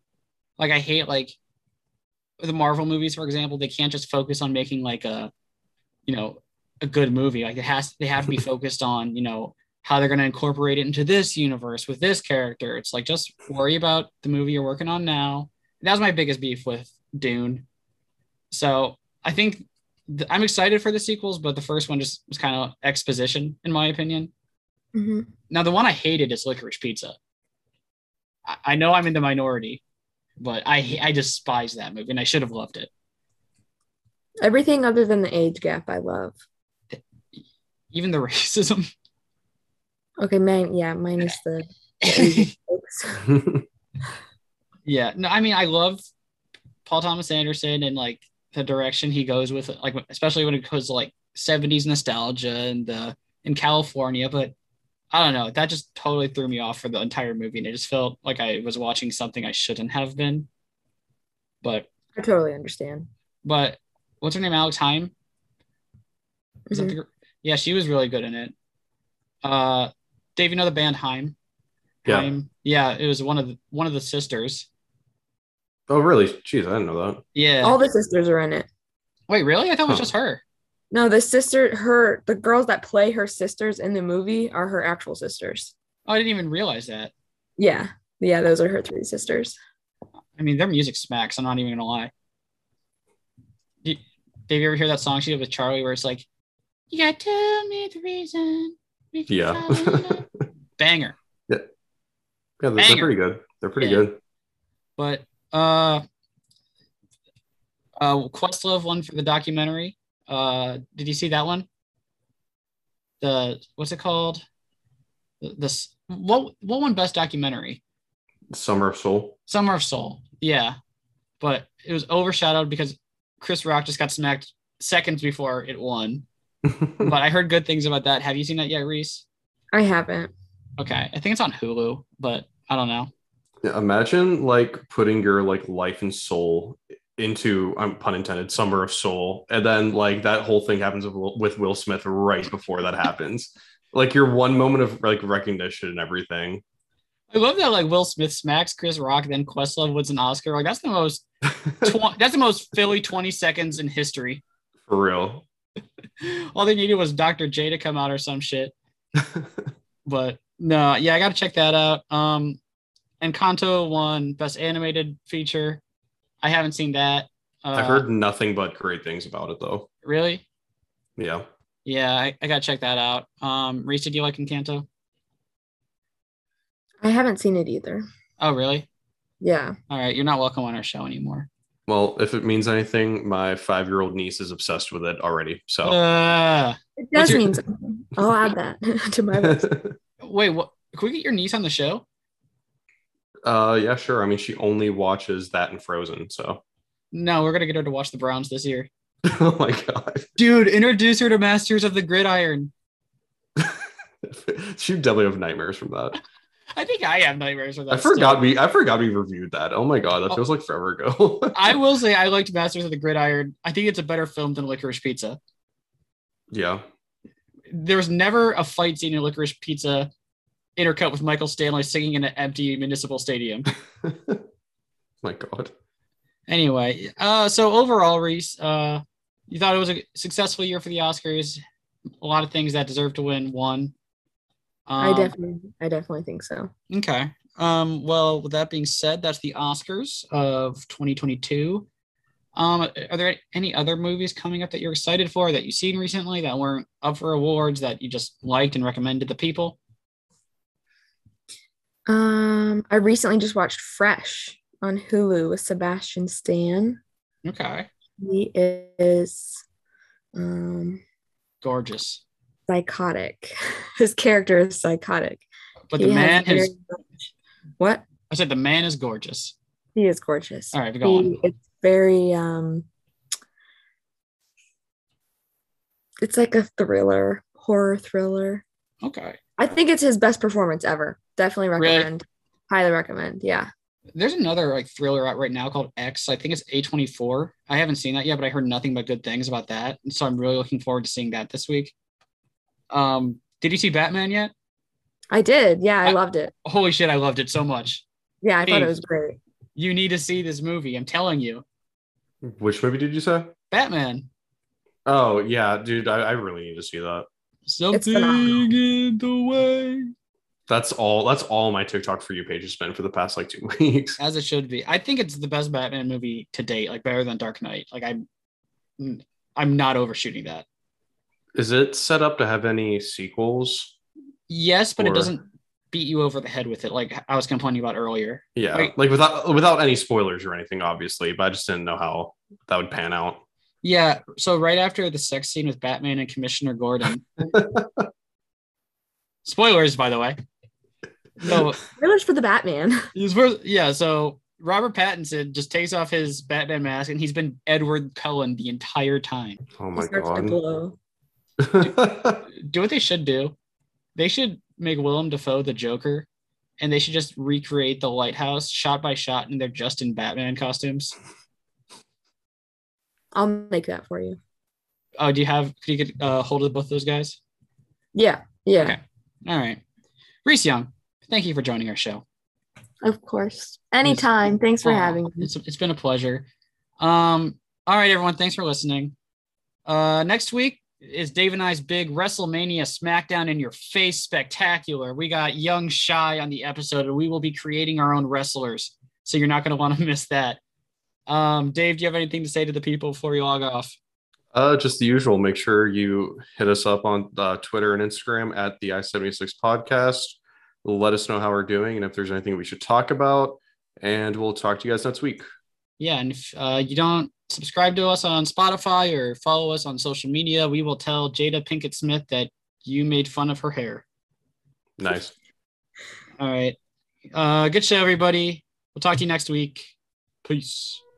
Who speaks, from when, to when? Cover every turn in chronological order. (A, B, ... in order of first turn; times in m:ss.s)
0:00.6-0:01.4 A
0:02.4-0:05.3 A
0:06.1-0:17.6 A
0:18.5-0:24.3 A
0:24.9-0:25.3 B
0:25.5-0:27.2 A
0:28.5-0:29.8 A
0:30.4-0:32.9 A
0:34.4-0:36.4 B
0:36.9-0:38.9 A
0:40.2-0:43.3 B
0:42.0-0:42.5 A
0:44.8-0:46.0 A
0:46.8-0:54.5 A
0:55.1-1:00.5 A
1:02.2-1:03.1 B
1:03.4-1:05.1 A
1:06.7-1:07.0 B
1:06.7-1:08.5 A
1:09.4-1:11.4 A
1:12.0-1:14.7 A
1:12.0-1:12.3 C
1:15.9-1:17.2 C
1:17.3-1:17.8 A
1:17.6-1:18.7 B
1:19.3-1:20.4 A
1:20.9-1:25.7 B
1:26.1-1:27.1 A
1:27.6-1:29.6 B
1:30.4-1:32.1 A
1:33.8-1:36.2 A
1:36.9-1:40.2 A
1:39.3-1:40.2 C
1:40.8-1:41.1 A
1:42.6-1:44.2 C
1:42.8-1:43.1 A
1:43.8-1:44.0 A
1:45.0-1:46.0 A
1:48.0-1:51.7 A
1:53.2-1:54.4 A
1:55.4-1:57.8 A
1:58.5-1:59.4 C
1:59.5-2:00.8 A
2:01.4-2:06.2 A
2:06.7-2:07.1 C
2:07.0-2:09.2 A
2:09.7-2:10.3 B
2:10.8-2:13.1 A
2:13.6-2:26.6 C
2:27.3-2:31.2 A
2:31.6-2:31.9 C
2:31.8-2:34.4 A
2:34.9-2:35.4 C
2:36.2-2:38.7 A
2:39.2-2:39.7 C
2:40.0-2:42.6 A
2:43.2-2:45.8 A
2:46.4-2:48.1 A
2:47.7-2:49.9 C
2:50.0-2:50.4 A
2:51.2-2:51.5 C
2:51.8-2:54.8 A
2:57.0-2:58.0 B
2:58.4-2:58.9 A
2:59.4-2:59.7 B
2:59.9-3:01.5 A
3:01.9-3:06.0 C
3:05.8-3:07.6 A
3:07.0-3:09.9 B
3:09.4-3:09.9 C
3:10.2-3:12.0 A
3:13.4-3:16.6 C
3:17.1-3:18.9 A
3:19.2-3:20.3 C
3:20.4-3:22.7 A
3:23.6-3:26.2 C
3:26.7-3:28.5 A
3:27.9-3:31.8 C
3:31.5-3:35.4 A
3:36.5-3:36.8 C
3:37.7-3:40.1 A
3:40.8-3:43.7 A
3:44.0-3:44.4 C
3:45.2-3:45.7 C
3:46.5-3:51.6 A
3:52.2-3:53.9 A
3:54.9-3:55.3 A
3:55.0-3:56.7 B
3:56.9-4:01.9 A
4:02.6-4:09.8 A
4:12.1-4:17.0 B
4:17.4-4:17.9 A
4:18.2-4:19.6 B
4:20.3-4:21.0 B
4:21.6-4:22.2 A
4:22.7-4:25.4 B
4:25.9-4:26.7 A
4:26.0-4:26.9 B
4:27.8-4:28.0 B
4:28.3-4:29.5 A
4:30.0-4:32.9 B
4:30.7-4:31.3 A
4:36.2-4:38.6 B
4:39.0-4:39.4 A
4:39.6-4:43.7 B
4:41.8-4:42.1 A
4:44.1-4:51.9 A
4:52.9-4:54.5 A
4:55.3-4:56.5 B
4:56.0-4:58.0 A
4:58.4-4:59.4 B
4:58.6-4:58.9 A
4:59.8-5:01.6 A
5:02.4-5:03.5 C
5:03.7-5:04.3 A
5:05.0-5:07.3 C
5:07.6-5:10.1 A
5:07.9-5:08.7 B
5:10.7-5:14.2 C
5:14.2-5:18.2 A
5:19.0-5:20.6 A
5:21.5-5:24.0 C
5:24.5-5:28.9 A
5:25.0-5:25.3 C
5:28.6-5:33.4 C
5:33.8-5:37.4 A
5:37.4-5:38.1 C
5:39.4-5:40.4 A
5:41.4-5:41.8 A
5:41.9-5:43.1 B
5:43.1-5:49.6 A
5:49.8-5:50.6 C
5:49.9-5:51.0 B
5:51.6-5:52.4 C
5:52.6-5:53.5 A
5:54.2-5:56.3 A
5:56.8-6:01.2 A
6:03.3-6:04.4 B
6:05.2-6:07.4 A
6:08.1-6:09.0 B
6:08.8-6:09.8 A
6:10.4-6:12.2 A
6:13.0-6:15.5 B
6:14.0-6:14.3 A
6:14.8-6:16.4 A
6:17.0-6:19.1 A
6:19.8-6:30.6 A
6:31.3-6:34.0 A
6:34.5-6:45.5 C
6:46.0-6:54.0 A
6:55.0-6:55.3 C
6:56.4-6:56.8 A
6:57.3-6:59.9 A
7:00.4-7:01.0 A